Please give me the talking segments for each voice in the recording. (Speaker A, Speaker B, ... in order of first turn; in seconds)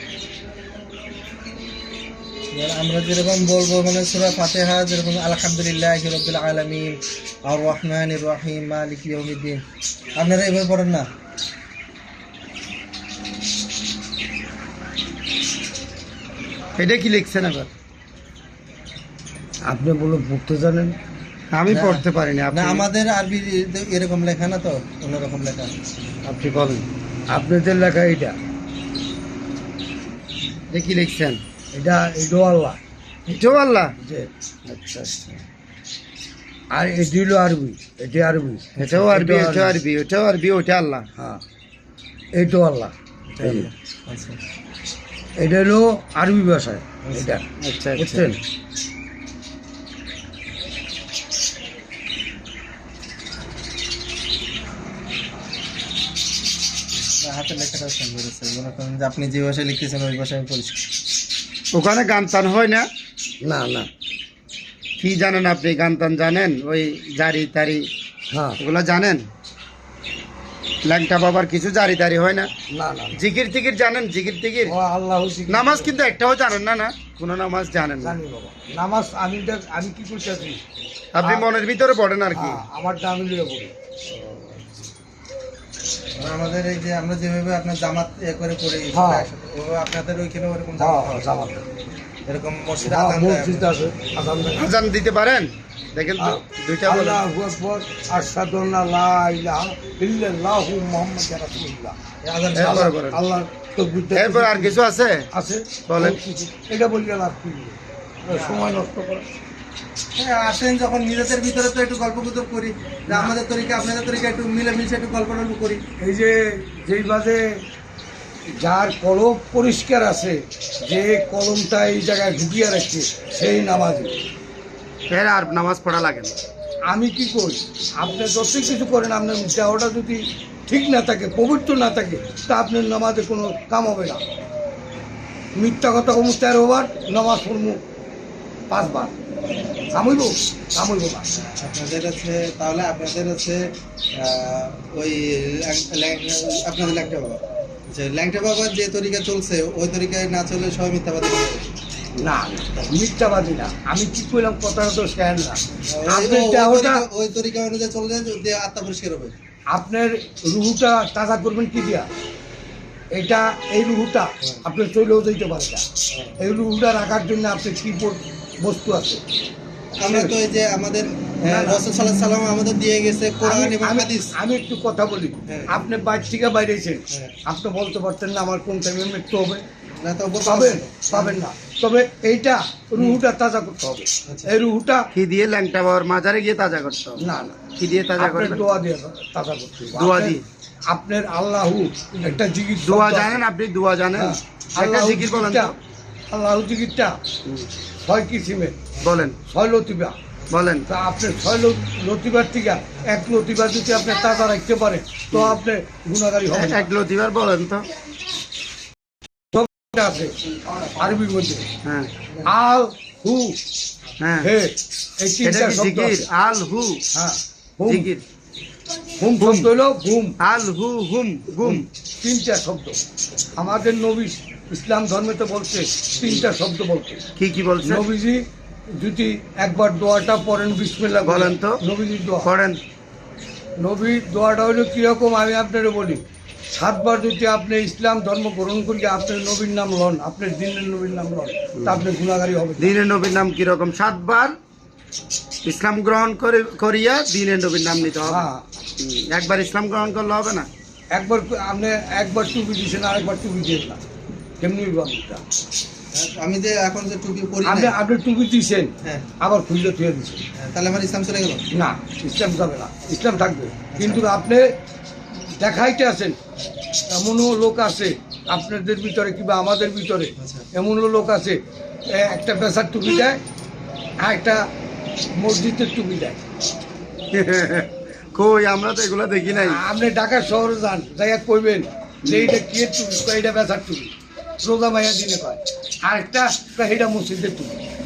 Speaker A: 2.5-9.6, 10.2-11.1, 21.7-25.7, 43.3-44.4, 47.0-47.4, 48.0-48.3, 57.2-60.8, 86.2-91.3, 92.3-93.8, 102.2-102.9, 108.3-108.8, 110.2-115.8, 139.9-140.2, 141.4-151.7, 155.9-159.3, 166.1-166.4, 170.0-174.3, 175.5-175.8, 179.9-181.5, 184.3-184.5, 199.0-199.3, 210.2-211.2, 256.1-258.0, 259.0-259.3, 260.6-261.6, 263.9-264.4, 270.4-270.7
Speaker B: 16.8-17.7, 21.5-22.9, 26.2-26.9, 30.7-31.4, 33.3-33.9, 34.7-35.4, 38.8-41.1, 47.6-48.3, 61.7-62.9, 65.0-67.9, 68.6-69.2, 70.8-72.5, 73.2-74.7, 75.5-78.2, 81.1-82.6, 94.6-97.2, 102.5-103.2, 104.1-105.3, 105.9-106.2, 125.1-126.4, 185.1-187.2, 187.8-188.6, 189.9-190.4, 192.8-195.7, 199.0-199.4, 200.5-200.9, 205.3-205.6, 206.5-207.9, 211.8-212.1, 214.2-214.5, 215.4-217.0, 217.9-218.2, 219.4-219.7, 220.4-221.9, 227.4-228.0, 231.2-231.8, 232.4-232.8, 241.8-242.0, 242.8-244.5, 245.6-250.7, 277.3-279.8, 282.2-282.6
Speaker C: 19.7-20.9, 27.3-28.4, 31.7-32.8, 34.0-34.3, 36.7-39.8, 41.2-41.4, 42.3-43.7, 45.4-47.5, 48.0-48.4, 63.4-63.9, 68.3-68.6, 72.7-73.2, 74.7-75.9, 78.0-80.6, 82.3-83.7, 84.3-84.6, 88.9-89.3, 90.8-91.6, 92.8-94.7, 96.2-102.0, 102.6-104.8, 105.3-109.2, 113.1-113.3, 116.0-117.6, 118.5-124.2, 126.9-134.2, 135.6-137.8, 138.7-139.1, 139.9-141.3, 152.2-157.0, 159.7-162.1, 163.1-165.8, 166.4-169.2, 170.1-170.3, 171.4-171.8, 173.4-179.6, 180.4-185.1, 187.2-187.6, 188.2-190.4, 190.9-193.4, 194.2-195.7, 196.3-197.2, 198.0-198.8, 199.4-200.2, 200.9-206.9, 209.5-210.4, 211.0-211.7, 212.5-213.6, 214.4-216.3, 217.1-218.1, 219.2-220.4, 221.6-223.0, 223.6-227.2, 227.8-232.5, 233.8-236.2, 236.7-242.9, 248.2-248.6, 251.1-254.0, 254.6-255.4, 257.6-258.9, 259.4-260.4, 261.7-264.7, 265.6-266.4, 267.2-273.4, 274.2-274.6, 275.4-276.5, 279.5-287.8